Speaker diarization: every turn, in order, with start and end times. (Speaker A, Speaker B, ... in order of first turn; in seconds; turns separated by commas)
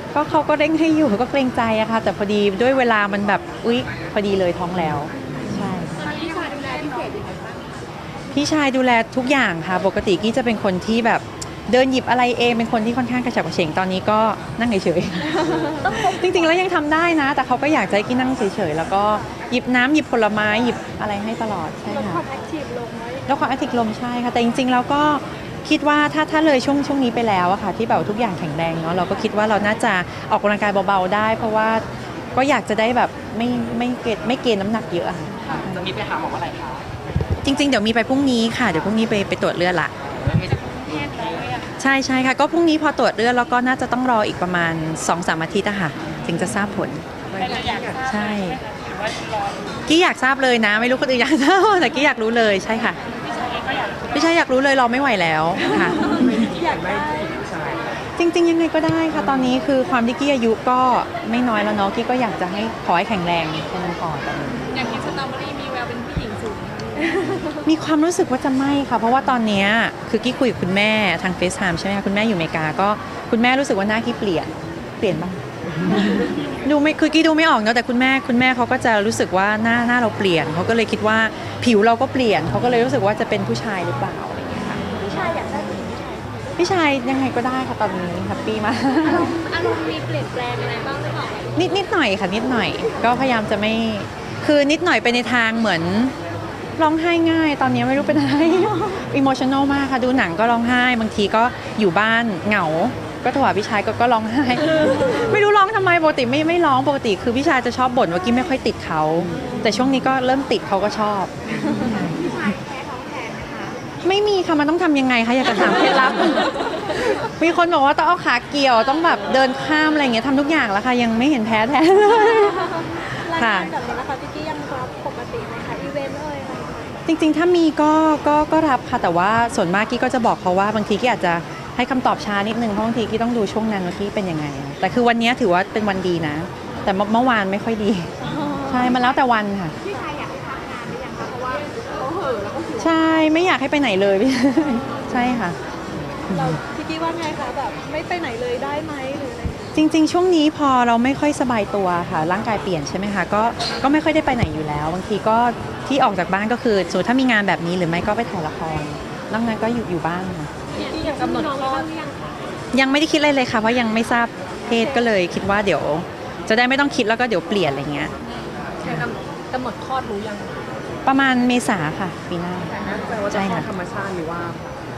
Speaker A: 0.1-6.0, Speaker B: 6.0-7.8, Speaker A: 8.3-22.2, Speaker C: 15.5-15.8, Speaker C: 21.9-23.3, Speaker A: 23.3-31.8, Speaker A: 32.3-35.9, Speaker D: 35.7-36.8, Speaker A: 37.4-39.9, Speaker D: 40.4-41.4, Speaker A: 41.8-47.0, Speaker D: 47.3-48.1, Speaker A: 47.9-48.6, Speaker A: 49.9-53.0, Speaker A: 54.1-56.3, Speaker C: 55.7-57.4, Speaker D: 56.0-57.9, Speaker A: 58.2-64.9, Speaker B: 64.7-66.8, Speaker E: 64.8-67.2, Speaker A: 67.6-85.4, Speaker C: 84.8-86.6, Speaker A: 86.5-89.4, Speaker B: 89.0-91.5, Speaker A: 91.5-96.1, Speaker A: 96.8-112.2, Speaker B: 112.0-113.8, Speaker A: 114.0-123.7, Speaker C: 122.2-127.0, Speaker A: 127.0-138.1, Speaker C: 138.2-139.0, Speaker A: 138.6-139.7, Speaker B: 139.9-142.9, Speaker A: 142.8-145.6, Speaker A: 146.3-146.6, Speaker C: 146.3-149.7, Speaker A: 149.7-160.5, Speaker E: 160.7-161.9, Speaker B: 160.8-162.4, Speaker A: 162.7-168.1, Speaker E: 168.8-170.7, Speaker A: 168.8-169.1, Speaker A: 171.0-173.7, Speaker D: 172.8-174.8